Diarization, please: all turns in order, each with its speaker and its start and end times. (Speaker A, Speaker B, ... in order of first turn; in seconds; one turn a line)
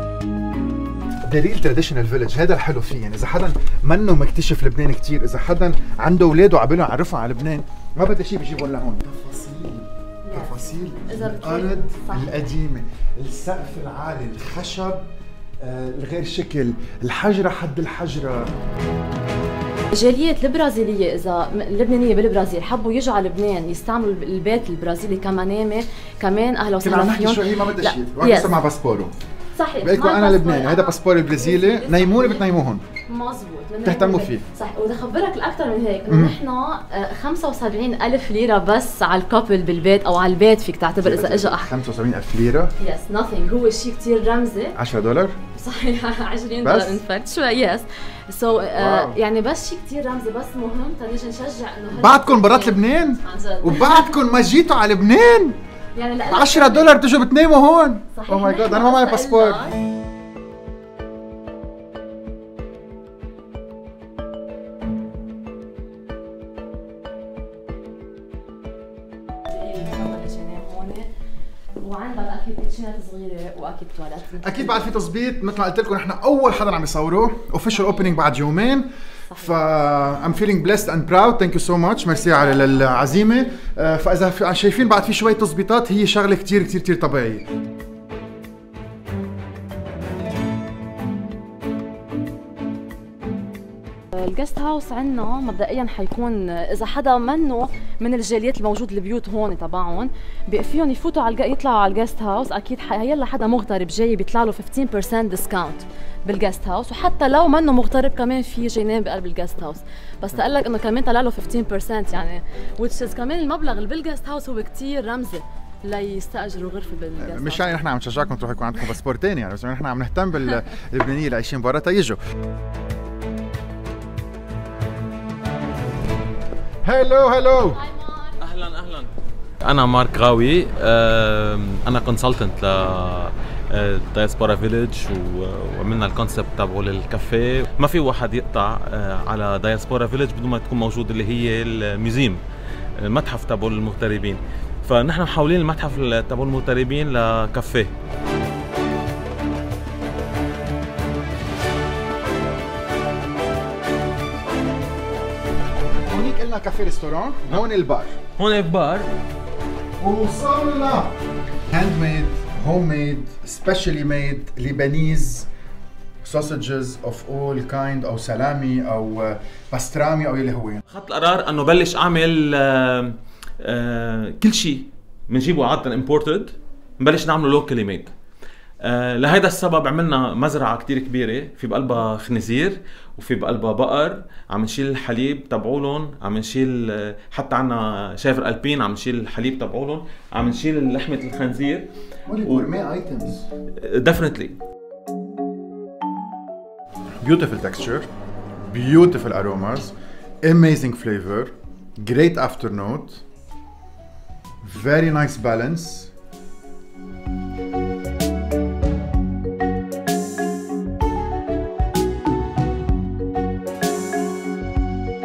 Speaker A: 1.2-15.1
Speaker B: 10.2-12.4
Speaker A: 15.6-18.5
Speaker B: 19.9-28.6
Speaker A: 26.8-29.1
Speaker B: 29.6-32.5
Speaker A: 29.8-32.8
Speaker B: 33.1-41.7
Speaker A: 33.9-34.4
Speaker A: 36.1-36.4
Speaker A: 41.0-42.7
Speaker B: 42.8-44.8
Speaker A: 44.8-45.4
Speaker B: 45.5-54.1
Speaker A: 46.6-47.0
Speaker A: 48.8-49.2
Speaker A: 51.9-55.6
Speaker B: 56.0-56.9
Speaker A: 56.3-59.6
Speaker B: 58.1-59.8
Speaker B: 69.5-71.1
Speaker B: 71.8-74.8
Speaker A: 74.4-87.5
Speaker B: 77.7-78.2
Speaker B: 79.3-79.5
Speaker B: 82.1-83.6
Speaker B: 94.1-117.9
Speaker A: 117.2-122.2
Speaker A: 126.8-127.8
Speaker B: 127.7-128.4
Speaker C: 128.4-129.1
Speaker C: 129.6-142.4
Speaker C: 143.0-147.9
Speaker A: 156.1-158.2
Speaker C: 158.4-159.1
Speaker A: 160.0-161.2
Speaker A: 161.7-165.5
Speaker A: 166.2-170.8
Speaker C: 170.9-178.1
Speaker C: 178.8-191.9
Speaker A: 192.3-193.5
Speaker C: 192.4-192.7
Speaker C: 193.8-194.6
Speaker A: 197.2-198.1
Speaker A: 198.7-203.2
Speaker A: 204.6-206.1